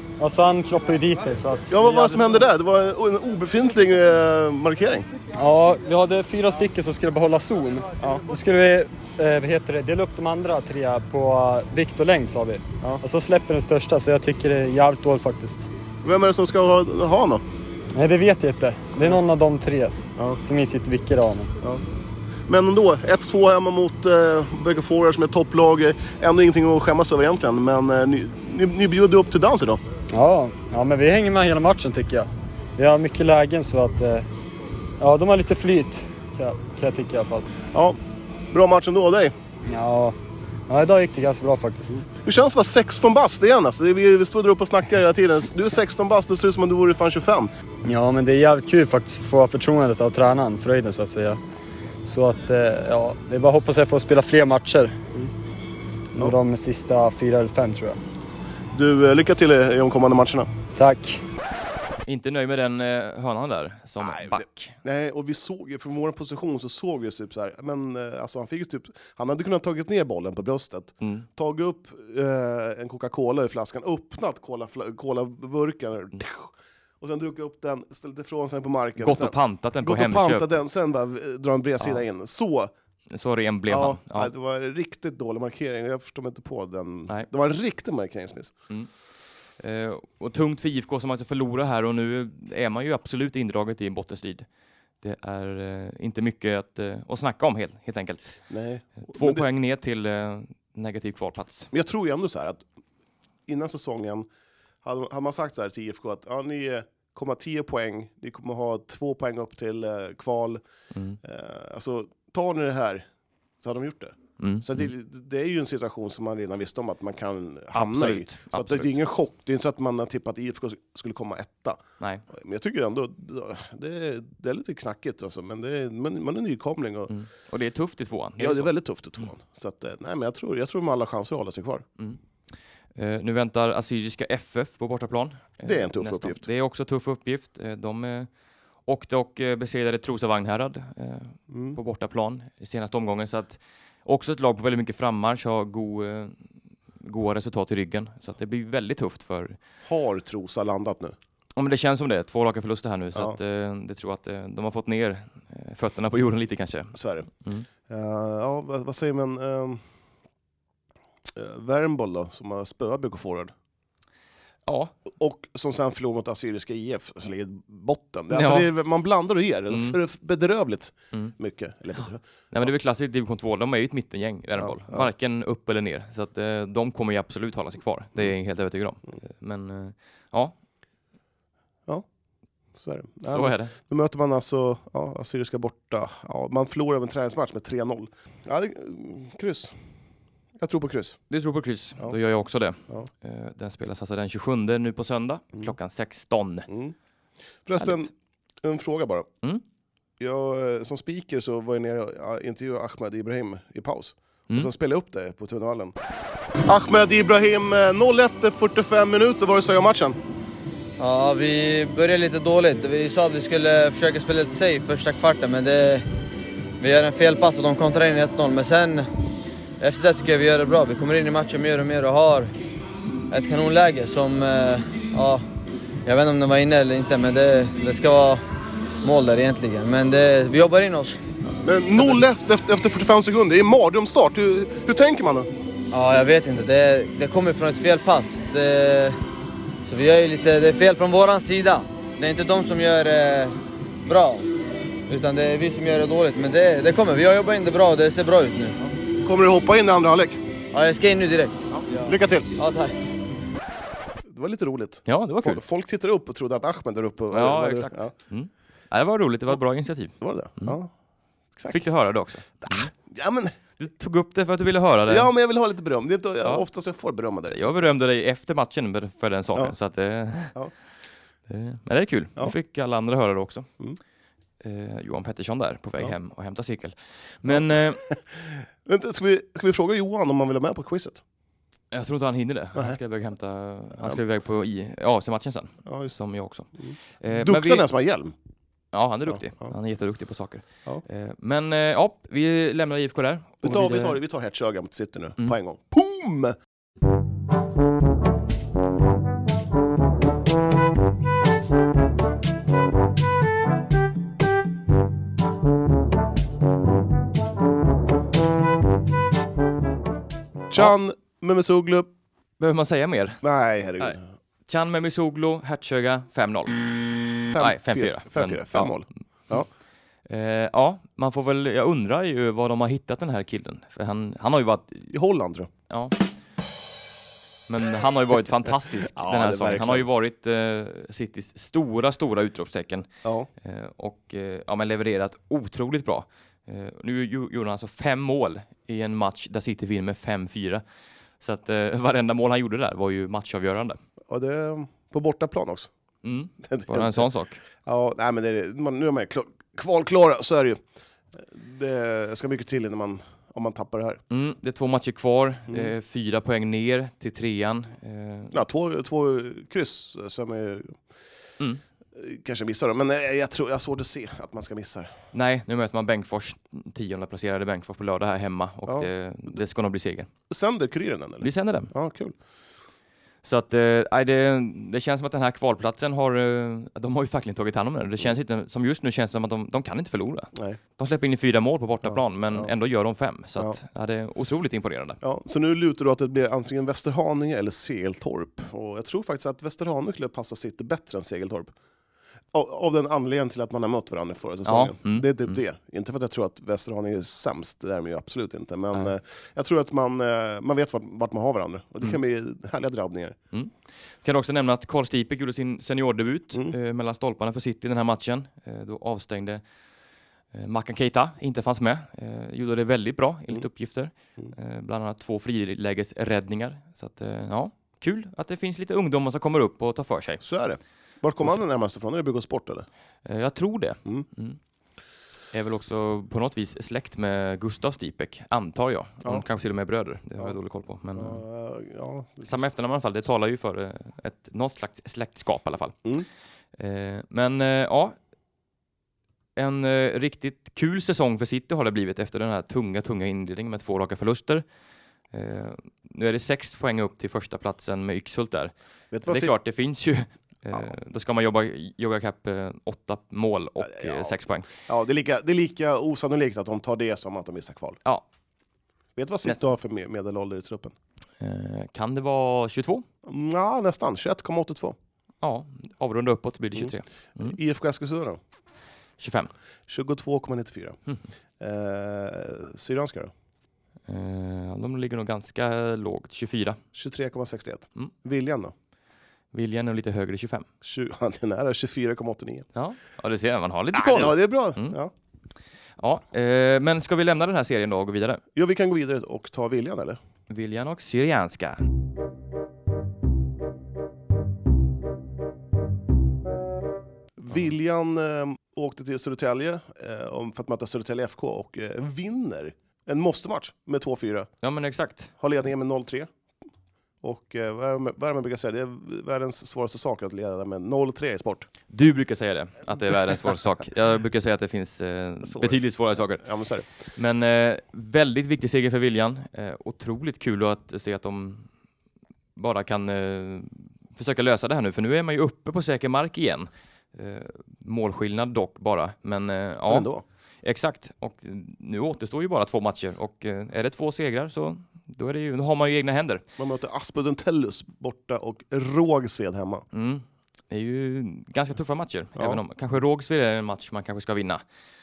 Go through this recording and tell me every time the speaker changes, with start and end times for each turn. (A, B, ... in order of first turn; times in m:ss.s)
0:00.2-0:02.4 A
0:01.7-0:05.1 B
0:05.4-0:15.7 A
0:16.0-0:17.4 B
0:17.9-0:21.5 A
0:22.5-0:29.8 B
0:30.1-0:34.3 A
0:35.0-0:37.5 A
0:37.7-0:38.0 B
0:38.5-0:39.3 B
0:39.7-0:40.2 A
0:40.7-0:42.0 A
0:42.1-0:47.5 B
0:47.8-0:51.4 A
0:52.0-0:55.0 A
0:56.1-0:58.0 A
0:58.7-1:00.5 B
1:00.8-1:01.2 A
1:02.1-1:04.7 C
1:04.0-1:22.7 B
1:11.0-1:11.2 C
1:19.0-1:20.5 C
1:23.1-1:24.3 C
1:23.7-1:28.5 B
1:29.6-1:34.4 C
1:35.0-1:38.4 C
1:38.5-1:39.4 B
1:39.0-1:41.7 C
1:41.7-1:42.6 B
1:43.5-1:44.3 B
1:44.8-1:50.6 B
1:50.9-1:51.2 C
1:51.2-1:53.1 B
1:53.6-2:07.1 B
1:54.4-1:54.9 C
1:57.7-1:59.0 C
2:02.0-2:02.2 C
2:07.1-2:08.7 C
2:08.4-2:11.8 B
2:13.0-2:18.3 C
2:15.6-2:16.5 B
2:18.8-2:26.4 C
2:21.5-2:21.8 B
2:27.0-2:29.6 C
2:29.8-2:31.2 B
2:31.6-2:37.6 C
2:36.9-2:37.3 B
2:37.9-2:39.8 B
2:41.3-2:43.5 B
2:44.6-2:44.9 C
2:45.2-2:52.7 B
2:48.3-2:48.7 C
2:49.7-2:50.0 C
2:52.5-3:00.5 C
2:54.6-2:55.1 B
3:02.8-3:09.7 B
3:03.3-3:03.7 C
3:10.6-3:11.2 B
3:11.3-3:16.7 C
3:16.7-3:16.9 B
3:17.6-3:19.3 B
3:20.2-3:25.9 B
3:26.6-3:30.2 B
3:31.0-3:36.0 D
3:36.8-3:39.1 D
3:39.8-3:42.5 D
3:43.3-3:45.4 D
3:46.0-3:48.4 D
3:49.0-3:51.2 D
3:51.6-3:55.5 B
3:55.9-3:59.2 D
3:59.8-4:04.5 D
4:05.1-4:08.8 D
4:09.2-4:10.4 B
4:10.7-4:12.9 D
4:11.7-4:12.6 B
4:14.2-4:18.1 B
4:15.1-4:15.6 C
4:17.3-4:20.8 C
4:20.2-4:20.9 B
4:21.6-4:21.8 B
4:21.7-4:22.9 C
4:22.6-4:23.5 B
4:23.8-4:25.3 C
4:25.1-4:27.7 B
4:27.5-4:30.6 C
4:31.5-4:33.7 C
4:34.6-4:38.0 C
4:37.5-4:41.2 B
4:41.9-4:47.9 C
4:45.8-4:46.1 B
4:46.8-4:48.3 B
4:48.9-4:54.2 C
4:49.3-4:49.7 B
4:53.6-4:56.6 B
5:10.7-5:12.1 B
5:12.6-5:13.4 C
5:13.4-5:14.2 B
5:14.0-5:16.8 C
5:17.4-5:19.0 C
5:17.5-5:19.6 B
5:20.3-5:25.1 C
5:25.1-5:25.7 B
5:25.9-5:26.2 C
5:27.7-5:33.1 C
5:29.0-5:30.1 B
5:33.2-5:33.5 B
5:33.6-5:40.8 C
5:41.4-5:44.0 C
5:44.3-5:45.9 B
5:46.2-5:47.6 C
5:46.6-5:47.3 B
5:47.8-5:50.8 B
5:51.3-5:54.2 B
5:54.3-5:58.6 C
5:58.5-6:01.0 B
6:02.1-6:05.1 B
6:05.3-6:10.3 C
6:10.5-6:12.3 B
6:11.4-6:11.9 C
6:13.4-6:25.2 C
6:20.5-6:20.8 B
6:22.1-6:22.7 B
6:25.2-6:31.7 B
6:32.5-6:43.4 B
6:34.6-6:35.6 C
6:43.5-6:49.6 C
6:50.5-7:00.4 C
7:00.4-7:02.8 B
7:03.2-7:04.6 C
7:05.5-7:11.4 C
7:11.1-7:12.6 B
7:12.4-7:16.0 C
7:16.8-7:18.2 C
7:19.6-7:24.6 C
7:25.3-7:28.7 C
7:29.1-7:29.5 B
7:29.2-7:34.7 C
7:33.8-7:38.0 B
7:39.2-7:40.9 B
7:41.4-7:43.0 C
7:43.2-7:45.0 B
7:45.4-7:47.6 C
7:47.4-7:48.4 B
7:49.2-7:49.5 C
7:49.9-7:51.0 B
7:51.6-7:53.3 B
7:54.1-7:56.8 C
7:56.9-7:58.7 B
7:59.5-8:00.7 C
8:00.8-8:02.7 B
8:02.7-8:05.0 C
8:03.9-8:05.1 B
8:06.0-8:08.4 C
8:08.5-8:10.2 B
8:10.5-8:11.8 C
8:17.4-8:24.5 B
8:24.6-8:25.3 C
8:25.4-8:26.3 B
8:27.2-8:31.7 B
8:31.9-8:36.4 C
8:35.4-8:36.8 B
8:37.1-8:41.7 C
8:42.6-8:50.1 C
8:49.9-8:50.2 B
8:50.6-8:56.4 C
8:56.6-8:59.8 B
8:59.9-9:04.6 C
9:02.4-9:02.6 B